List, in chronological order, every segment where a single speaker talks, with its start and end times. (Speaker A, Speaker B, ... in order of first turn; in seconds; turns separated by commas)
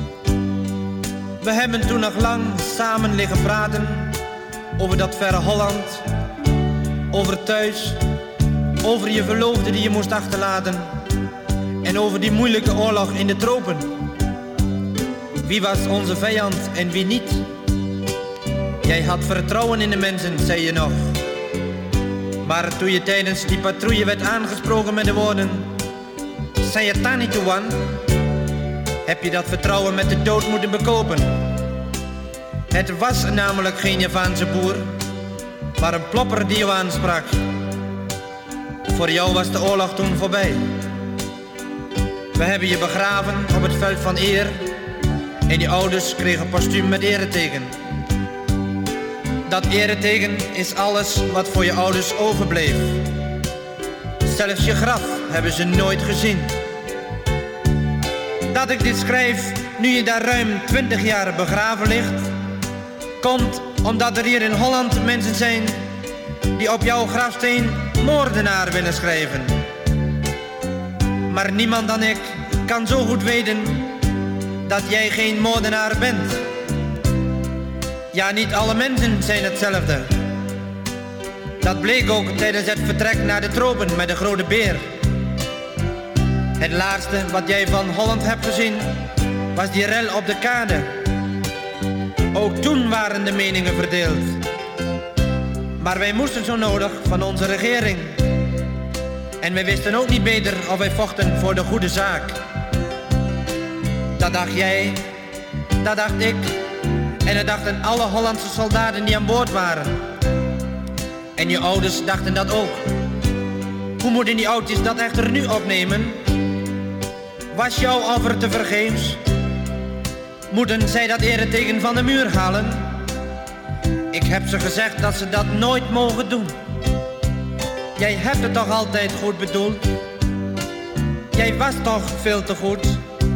Speaker A: 1.4-4.2, Speaker A: 4.8-6.0, Speaker A: 7.1-8.0, Speaker A: 8.8-10.9, Speaker A: 11.8-14.0, Speaker A: 15.4-17.5, Speaker A: 18.8-21.2, Speaker A: 22.4-25.7, Speaker A: 26.6-28.0, Speaker A: 29.1-31.5, Speaker A: 32.7-34.9, Speaker A: 35.8-37.4, Speaker A: 38.9-40.8, Speaker A: 42.3-44.7, Speaker A: 45.5-47.7, Speaker A: 49.5-53.1, Speaker A: 54.2-56.5, Speaker A: 58.5-62.3, Speaker A: 63.2-65.8, Speaker A: 66.5-69.6, Speaker A: 71.3-74.0, Speaker A: 74.6-76.4, Speaker A: 78.1-80.1, Speaker A: 81.6-85.0, Speaker A: 86.6-91.0, Speaker A: 92.3-94.4, Speaker A: 95.8-98.3, Speaker A: 99.4-102.4, Speaker A: 104.2-105.0, Speaker A: 105.8-106.6, Speaker A: 107.2-110.0, Speaker A: 111.3-112.8, Speaker A: 114.0-116.4, Speaker A: 117.5-119.2, Speaker A: 120.5-123.0, Speaker A: 124.1-126.5, Speaker A: 128.0-129.9, Speaker A: 131.3-133.0